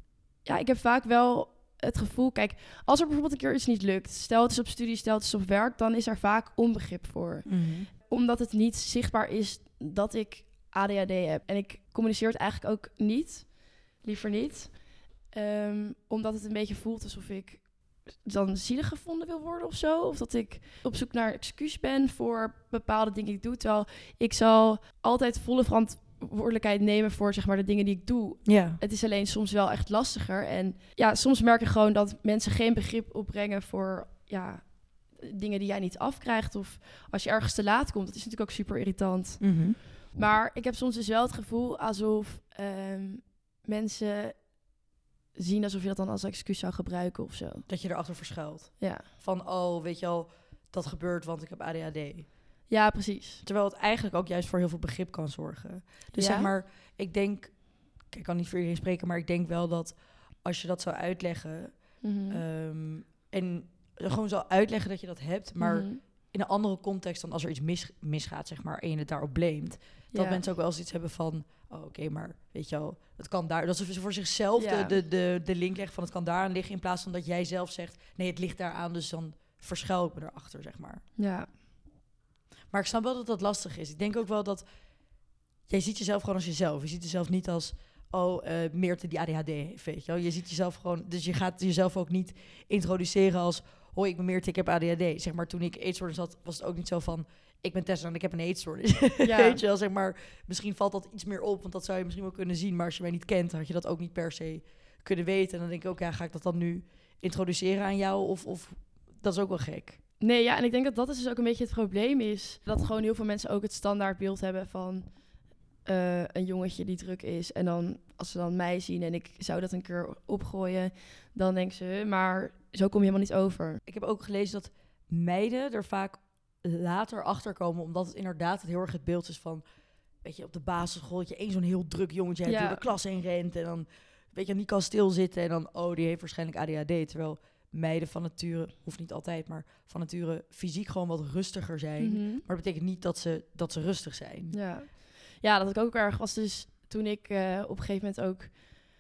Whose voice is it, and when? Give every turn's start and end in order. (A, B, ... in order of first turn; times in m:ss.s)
0:00.4-0:39.4 A
0:07.4-0:07.9 B
0:28.4-0:28.8 B
0:39.4-0:39.8 B
0:40.1-0:44.4 A
0:45.4-0:47.6 A
0:47.7-0:52.3 B
0:48.8-0:49.1 A
0:52.7-0:53.4 A
0:53.4-0:57.6 B
0:56.1-0:56.5 A
0:58.1-1:01.8 B
1:02.0-1:02.4 A
1:02.3-1:21.0 B
1:05.6-1:06.0 A
1:10.1-1:10.4 A
1:14.6-1:14.9 A
1:21.2-1:21.5 A
1:22.7-1:24.6 B
1:25.7-1:50.0 B
1:39.2-1:39.6 A
1:50.2-1:55.1 A
1:55.9-2:03.8 A
2:03.9-2:09.6 B
2:10.2-2:24.6 B
2:12.4-2:12.8 A
2:22.0-2:22.4 A
2:24.5-2:28.8 A